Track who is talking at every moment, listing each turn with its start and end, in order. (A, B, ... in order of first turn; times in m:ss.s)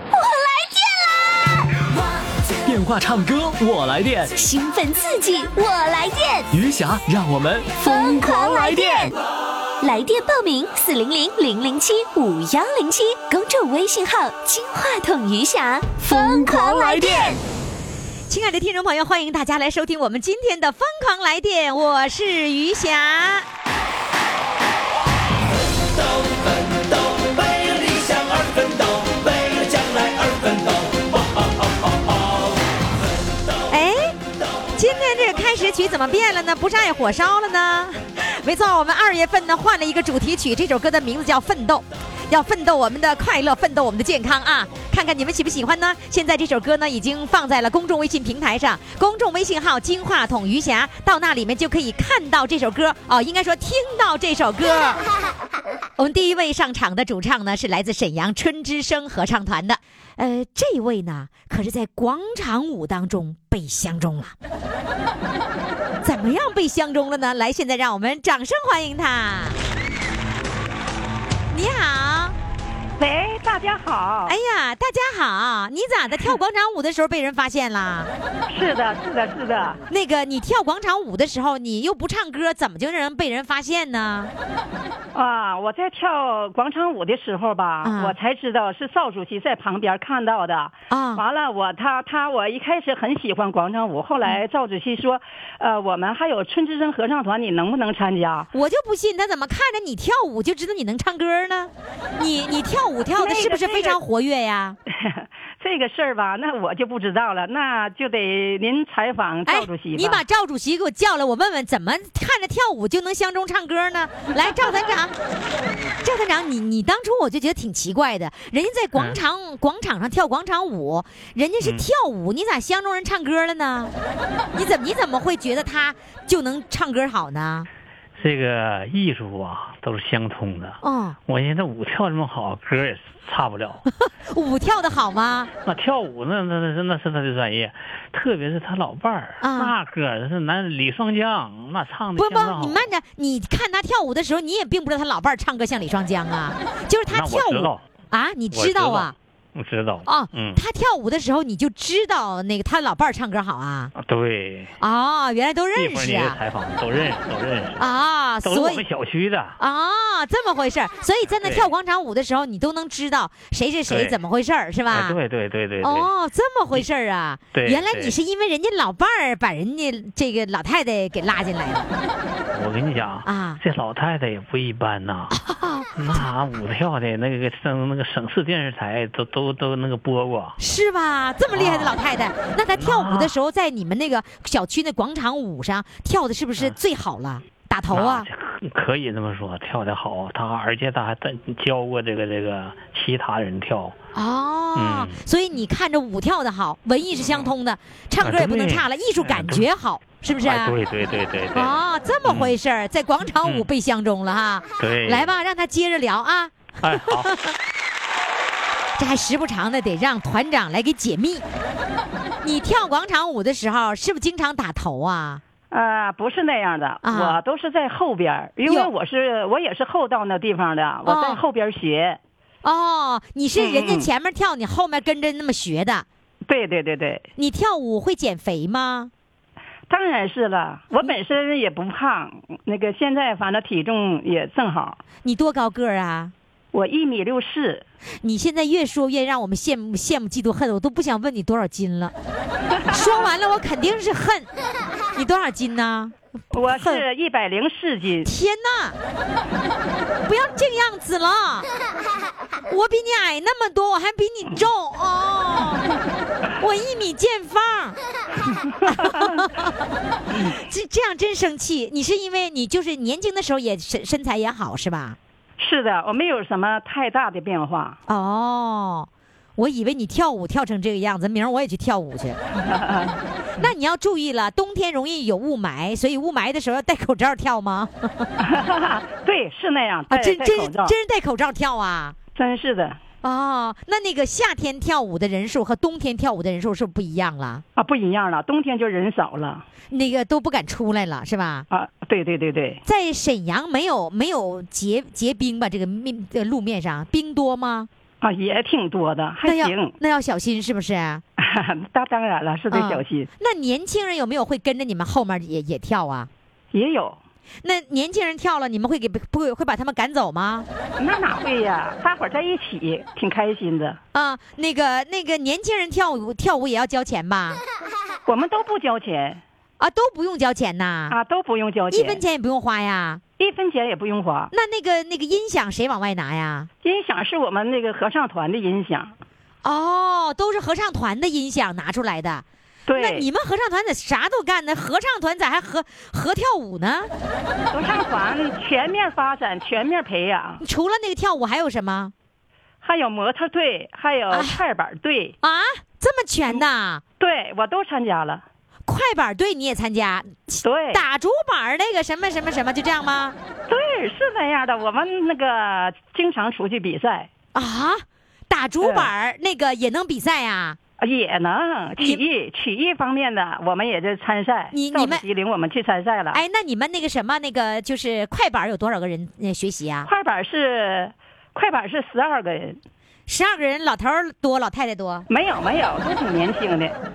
0:00.1-0:01.6 A
0:02.6-0:04.3 B
0:04.4-0:06.5 A
0:06.5-0:09.1 B
0:07.8-0:09.2 A
0:09.8-0:17.4 A
0:16.0-0:17.4 B
0:18.3-0:23.5 C
0:25.7-0:33.7 D
0:33.7-0:34.1 C
0:34.8-0:55.0 C
0:56.0-1:04.3 C
1:06.0-1:09.6 C
1:11.5-1:12.4 C
1:13.0-1:14.4 E
1:14.3-1:18.1 C
1:18.5-1:19.8 E
1:19.9-1:24.3 C
1:25.1-1:38.5 E
1:27.8-1:28.2 C
1:30.9-1:31.2 C
1:38.5-1:44.8 C
1:43.2-1:44.0 E
1:44.9-1:50.2 E
1:49.5-1:55.1 C
1:56.0-2:03.9 C
2:04.6-2:07.7 C
2:08.2-2:13.9 F
2:10.8-2:11.2 C
2:14.3-2:15.5 C
2:15.6-2:22.8 F
2:19.4-2:19.7 C
2:22.2-2:29.1 C
2:27.1-2:27.8 F
2:28.5-2:30.6 F
2:30.0-2:33.9 C
2:34.0-2:34.8 F
2:34.8-2:36.4 C
2:35.8-2:37.9 F
2:37.8-2:38.8 C
2:38.4-2:39.6 F
2:39.6-2:45.2 C
2:41.3-2:41.7 F
2:43.9-2:44.2 F
2:44.9-2:46.1 F
2:45.8-2:51.9 C
2:47.5-2:48.2 F
2:52.5-2:55.4 F
2:53.2-2:53.6 C
2:55.3-2:55.9 C
2:56.0-3:00.6 F
3:00.6-3:08.3 C
3:01.5-3:02.0 F
3:02.8-3:03.4 F
3:07.9-3:14.0 F
3:14.1-3:20.7 C
3:14.8-3:15.2 F
3:17.2-3:17.5 F
3:18.2-3:19.7 F
3:20.2-3:22.6 F
3:21.5-3:26.5 C
3:24.8-3:25.3 F
3:26.8-3:27.3 F
3:27.1-3:27.5 C
3:29.0-3:31.4 C
3:32.4-3:35.4 C
3:35.7-3:42.2 E
3:37.0-3:37.4 C
3:38.6-3:38.9 C
3:41.0-3:41.4 C
3:42.6-3:46.1 C
3:43.6-3:44.1 E
3:46.5-3:47.2 E
3:47.4-3:49.1 C
3:49.9-3:55.0 E
3:55.2-3:56.3 C
3:56.7-3:57.8 E
3:58.2-4:02.1 C
4:02.9-4:04.5 C
4:02.9-4:03.3 E
4:05.2-4:06.1 C
4:06.5-4:08.3 E
4:06.8-4:07.0 C
4:08.2-4:09.0 C
4:10.3-4:11.7 C
4:12.7-4:15.8 C
4:16.6-4:18.0 C
4:18.9-4:19.7 C
4:19.0-4:19.3 E
4:20.5-4:25.2 C
4:25.6-4:28.0 E
4:28.1-4:32.4 C
4:32.6-4:33.2 E
4:33.6-4:38.3 C
4:38.4-4:41.0 E
4:40.1-4:42.2 C
4:42.4-4:43.0 E
4:43.2-4:47.6 C
4:47.8-4:49.6 E
4:49.9-4:51.6 C
4:51.7-4:52.8 E
4:52.8-4:57.9 C
4:58.2-4:59.9 E
4:59.4-5:01.2 C
5:01.4-5:03.3 E
5:02.7-5:06.3 C
5:06.7-5:07.2 E
5:07.6-5:10.7 C
5:11.0-5:14.0 E
5:14.1-5:17.6 C
5:18.3-5:19.4 E
5:19.8-5:21.2 C
5:21.1-5:22.2 E
5:21.9-5:23.2 C
5:23.4-5:24.5 E
5:24.5-5:26.7 C
5:26.8-5:29.2 E
5:29.6-5:32.4 C
5:32.9-5:33.3 E
5:33.0-5:37.1 C
5:37.7-5:40.6 E
5:40.6-5:42.1 C
5:42.8-5:45.4 E
5:44.3-5:44.6 C
5:45.4-5:47.0 C
5:47.2-5:48.4 E
5:48.9-5:53.4 C
5:50.6-5:51.0 E
5:53.7-5:57.3 E
5:57.6-6:00.8 C
5:58.8-5:59.1 E
6:01.0-6:06.4 E
6:04.7-6:05.2 C
6:06.3-6:10.1 C
6:10.0-6:12.8 E
6:13.3-6:15.2 C
6:15.3-6:17.0 E